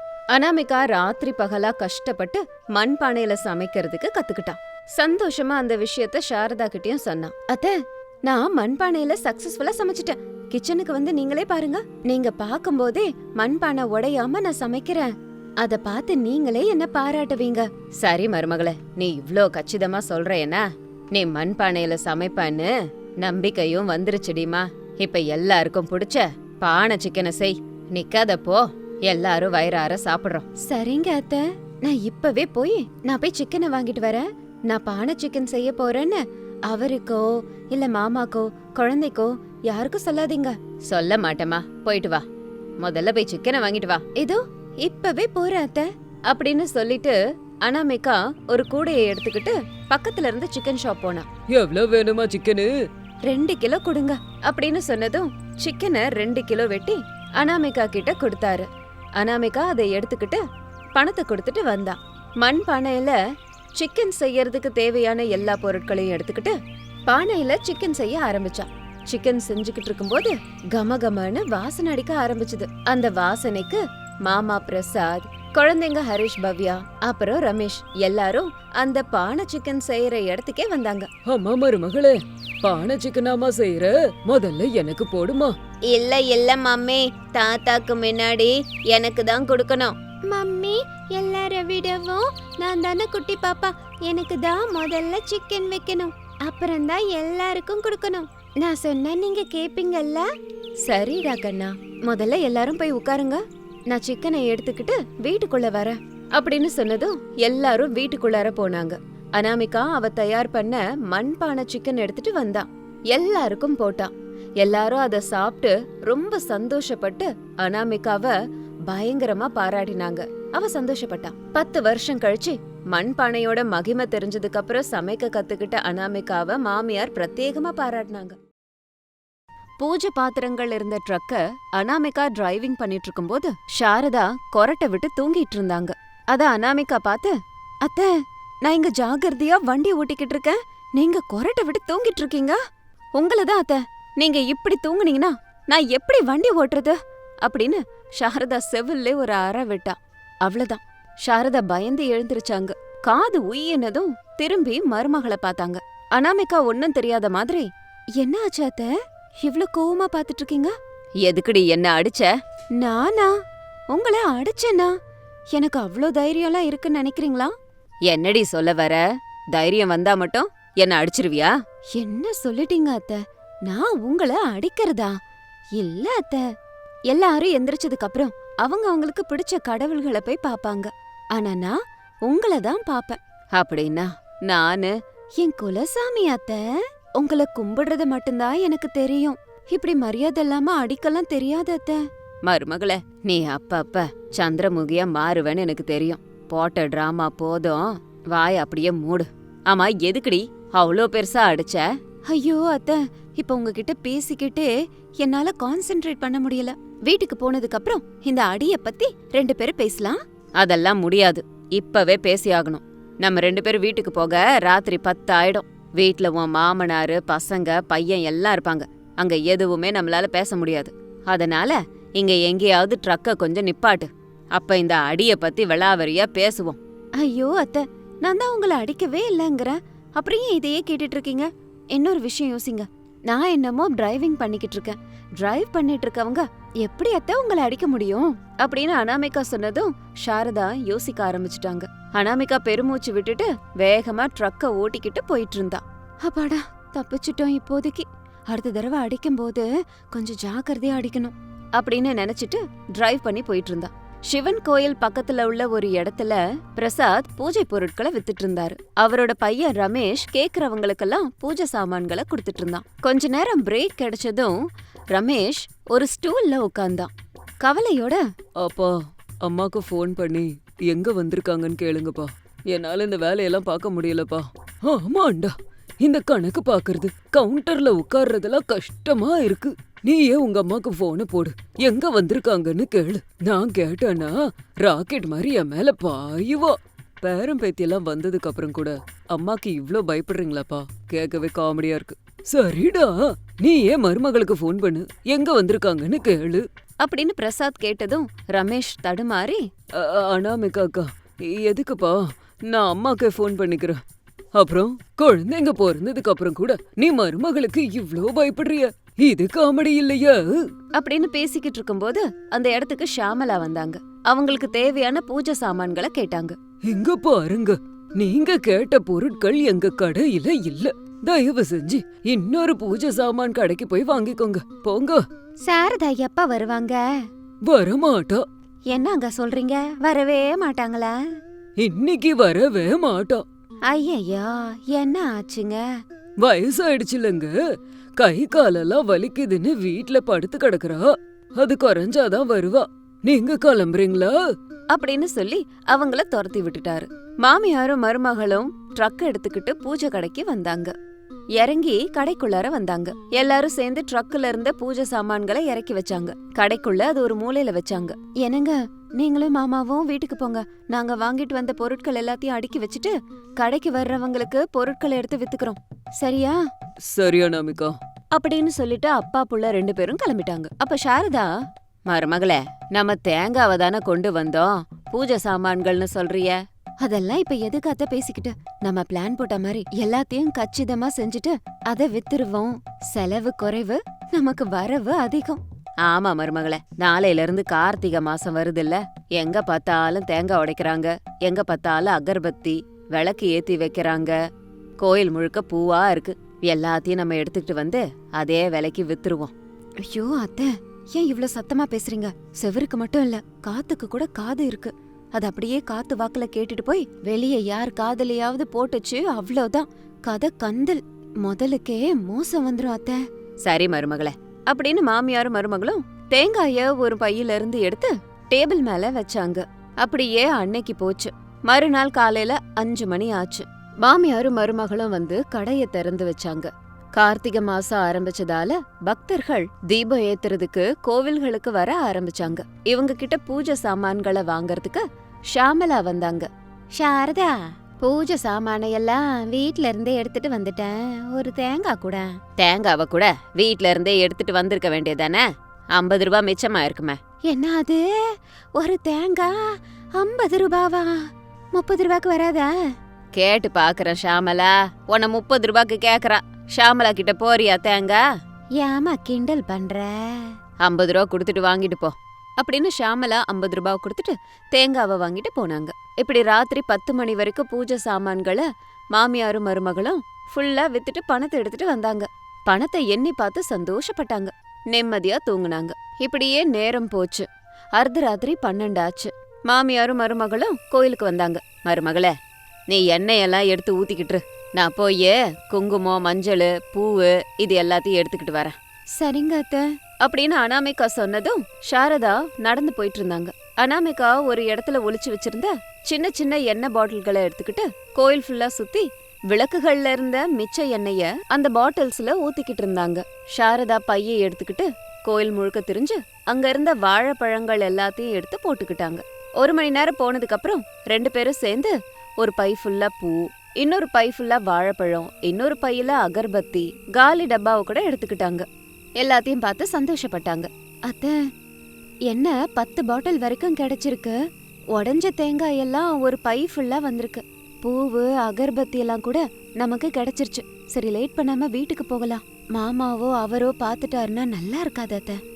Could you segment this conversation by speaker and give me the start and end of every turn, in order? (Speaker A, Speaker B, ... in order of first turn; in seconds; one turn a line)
Speaker A: 0.3-42.2
Speaker A: 42.8-51.3
Speaker B: 51.5-52.7
Speaker A: 53.3-60.4
Speaker A: 60.9-63.1
Speaker A: 63.8-66.5
Speaker A: 67.1-81.1
Speaker B: 81.2-85.5
Speaker A: 85.9-100.3
Speaker A: 100.8-118.3
Speaker A: 118.9-128.4
Speaker A: 129.8-138.1
Speaker A: 138.6-142.6
Speaker A: 143.2-160.7
Speaker A: 161.2-163.3
Speaker A: 163.9-164.9
Speaker A: 165.5-167.5
Speaker A: 168.1-175.2
Speaker A: 175.8-176.4
Speaker A: 177.1-264.6
Speaker A: 265.1-268.2
Speaker B: 268.6-296.6
Speaker A: 297.0-299.6
Speaker B: 300.0-304.0
Speaker B: 304.5-310.6
Speaker A: 310.9-316.6
Speaker B: 316.8-325.2
Speaker A: 325.6-327.1
Speaker B: 327.6-328.4
Speaker A: 328.9-331.2
Speaker B: 331.8-333.4
Speaker A: 333.9-335.9
Speaker B: 336.4-337.6
Speaker B: 338.2-344.4
Speaker A: 344.9-350.9
Speaker A: 351.6-366.6
Speaker B: 367.1-367.9
Speaker A: 368.3-371.5
Speaker A: 372.1-394.3
Speaker A: 395.0-445.4
Speaker A: 445.9-458.2
Speaker A: 458.8-482.3
Speaker A: 482.9-518.6
Speaker A: 519.2-521.4
Speaker A: 522.3-524.4
Speaker A: 524.9-535.4